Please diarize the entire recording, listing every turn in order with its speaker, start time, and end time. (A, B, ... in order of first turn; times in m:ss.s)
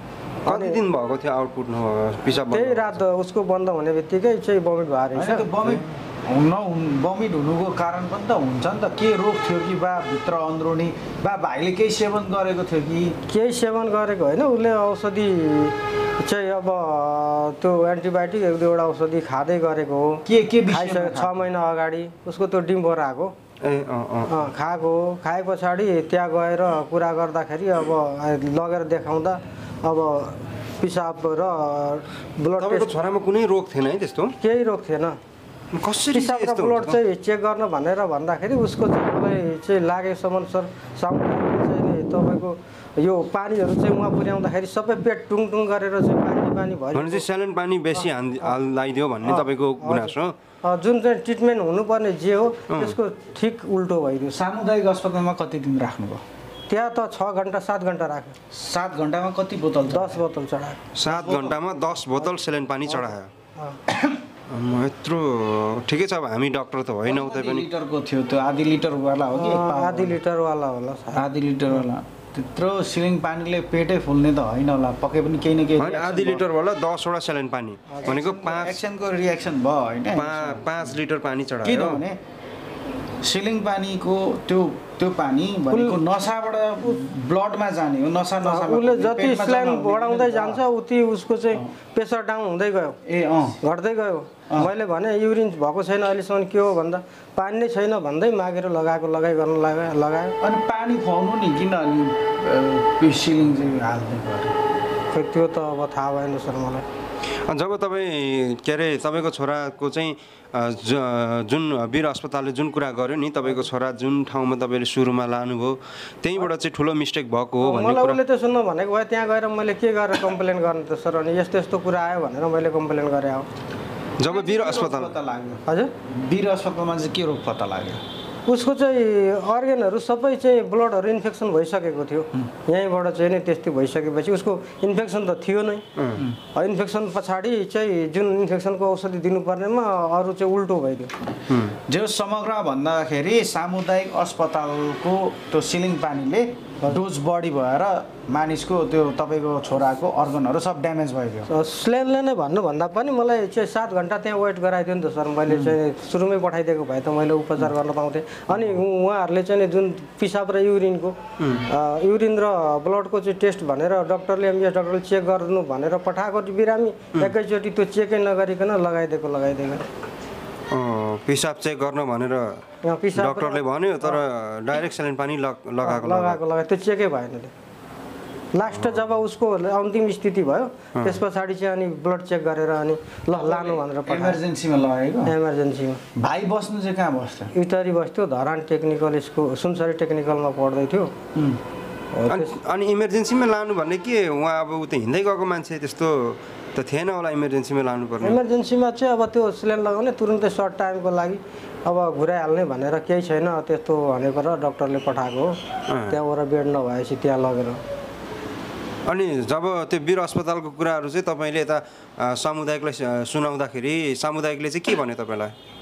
0:00.4-0:00.8 A
0:00.4-0:03.0 B
0:02.3-0:05.5 A
0:05.1-0:13.2 C
0:05.6-0:05.9 B
0:13.3-0:23.3 A
0:20.2-0:21.3 C
0:23.6-0:24.3 B
0:24.2-0:32.9 A
0:32.6-0:34.3 B
0:34.4-0:35.2 A
0:35.7-0:37.0 B
0:36.1-0:47.2 A
0:46.9-0:50.4 B
0:49.2-0:54.4 A
0:52.7-0:53.0 B
0:54.3-0:56.2 C
0:56.7-0:58.4 A
0:58.5-1:00.2 C
0:59.8-1:00.9 A
1:00.9-1:03.3 B
1:01.0-1:01.6 C
1:02.9-1:03.8 A
1:03.9-1:04.2 C
1:04.5-1:07.7 B
1:07.0-1:10.2 C
1:09.3-1:11.9 A
1:11.1-1:16.4 C
1:15.8-1:18.8 B
1:17.9-1:18.2 A
1:18.0-1:20.7 C
1:20.1-1:22.0 B
1:21.6-1:22.2 C
1:23.2-1:30.6 C
1:25.7-1:26.0 A
1:28.4-1:33.0 A
1:33.0-1:33.6 C
1:33.6-1:40.4 A
1:40.4-1:44.5 C
1:45.1-1:46.8 A
1:47.5-1:58.2 B
1:57.6-2:03.4 A
2:04.2-2:05.1 B
2:04.2-2:08.0 C
2:05.6-2:05.9 A
2:08.4-2:15.8 A
2:16.0-2:16.2 B
2:16.5-2:21.1 A
2:21.5-2:21.8 B
2:21.9-2:31.5 C
2:31.5-2:49.9 A
2:41.4-2:41.7 B
2:50.7-2:52.6 B
2:52.8-2:54.2 A
2:53.1-2:56.4 B
2:55.8-2:57.5 A
2:58.5-3:04.4 A
2:58.7-2:59.0 B
3:03.4-3:05.3 C
3:05.2-3:06.0 A
3:06.2-3:07.5 C
3:07.5-3:11.1 A
3:12.1-3:12.5 A
3:12.3-3:18.4 B
3:18.2-3:25.6 A
3:25.9-3:26.2 B
3:26.1-3:27.8 A
3:29.0-3:35.5 B